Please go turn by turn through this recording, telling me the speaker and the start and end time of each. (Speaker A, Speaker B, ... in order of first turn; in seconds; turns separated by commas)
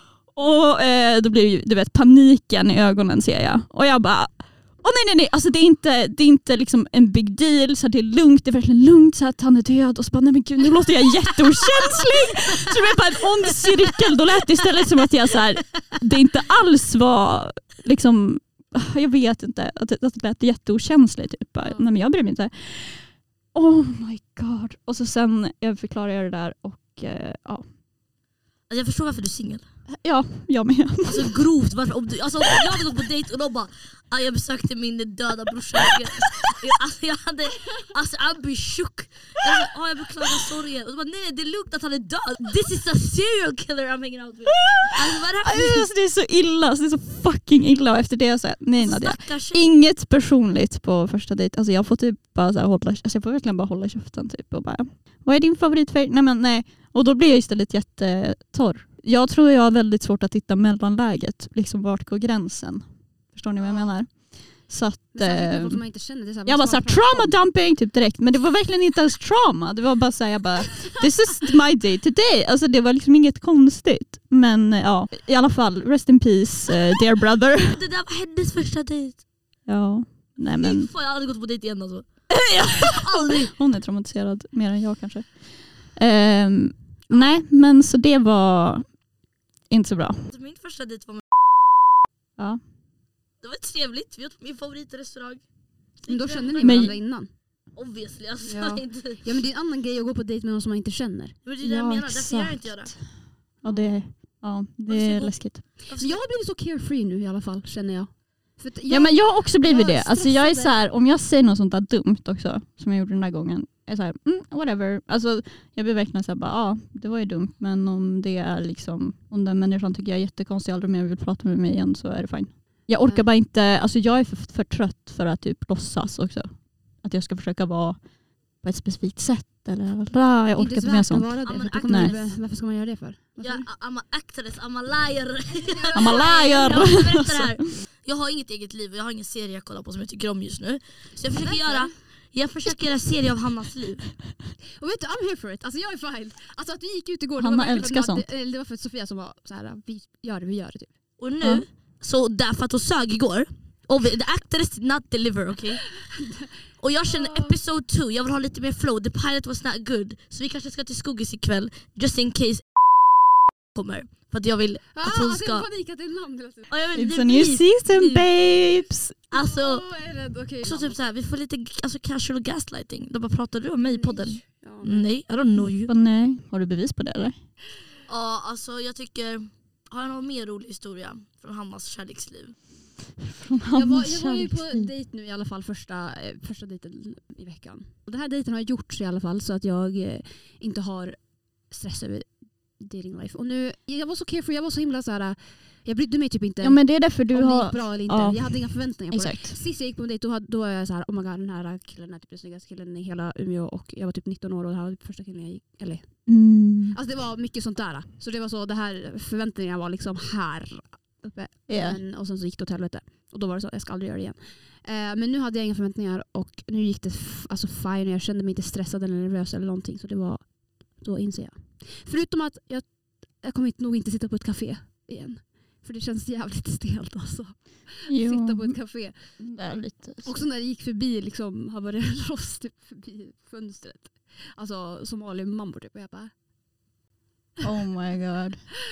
Speaker A: 0.3-27.6, Speaker B: 28.7-29.6, Speaker A: 29.9-31.4, Speaker B: 31.1-45.9, Speaker A: 32.5-32.8, Speaker A: 44.5-65.8, Speaker B: 48.8-49.7, Speaker C: 63.6-63.9, Speaker C: 65.1-67.4, Speaker A: 66.5-77.8, Speaker B: 77.6-79.2, Speaker A: 79.7-80.9, Speaker B: 80.6-83.5, Speaker A: 82.3-88.9, Speaker A: 89.7-90.3, Speaker B: 90.3-91.2, Speaker B: 93.4-95.4, Speaker B: 96.0-97.0, Speaker C: 96.1-97.3, Speaker A: 96.6-96.9, Speaker B: 97.8-99.2, Speaker C: 98.5-101.4, Speaker B: 101.5-102.9, Speaker A: 101.6-103.1, Speaker C: 103.6-104.0, Speaker A: 103.6-105.6, Speaker B: 104.9-106.2, Speaker C: 106.0-110.8, Speaker A: 108.9-132.1, Speaker C: 123.0-123.3, Speaker C: 130.6-133.7, Speaker B: 131.4-132.4, Speaker B: 133.4-144.1, Speaker C: 135.6-137.0, Speaker A: 135.9-137.6, Speaker C: 141.3-141.9, Speaker C: 144.8-150.9, Speaker A: 147.4-148.2, Speaker B: 151.2-156.0, Speaker C: 156.1-156.5, Speaker B: 156.8-162.6, Speaker C: 157.1-157.6, Speaker B: 163.7-165.7, Speaker C: 164.9-166.7, Speaker B: 166.7-168.3, Speaker A: 166.9-169.2, Speaker B: 169.3-169.9, Speaker C: 169.3-171.0, Speaker B: 170.6-175.9, Speaker C: 173.8-175.1, Speaker A: 175.6-177.4, Speaker B: 178.1-182.6, Speaker A: 183.2-184.9, Speaker C: 183.7-206.3, Speaker A: 196.6-199.6, Speaker A: 206.3-207.0, Speaker C: 206.9-236.3, Speaker A: 211.7-212.0, Speaker A: 228.1-230.3, Speaker A: 237.6-238.7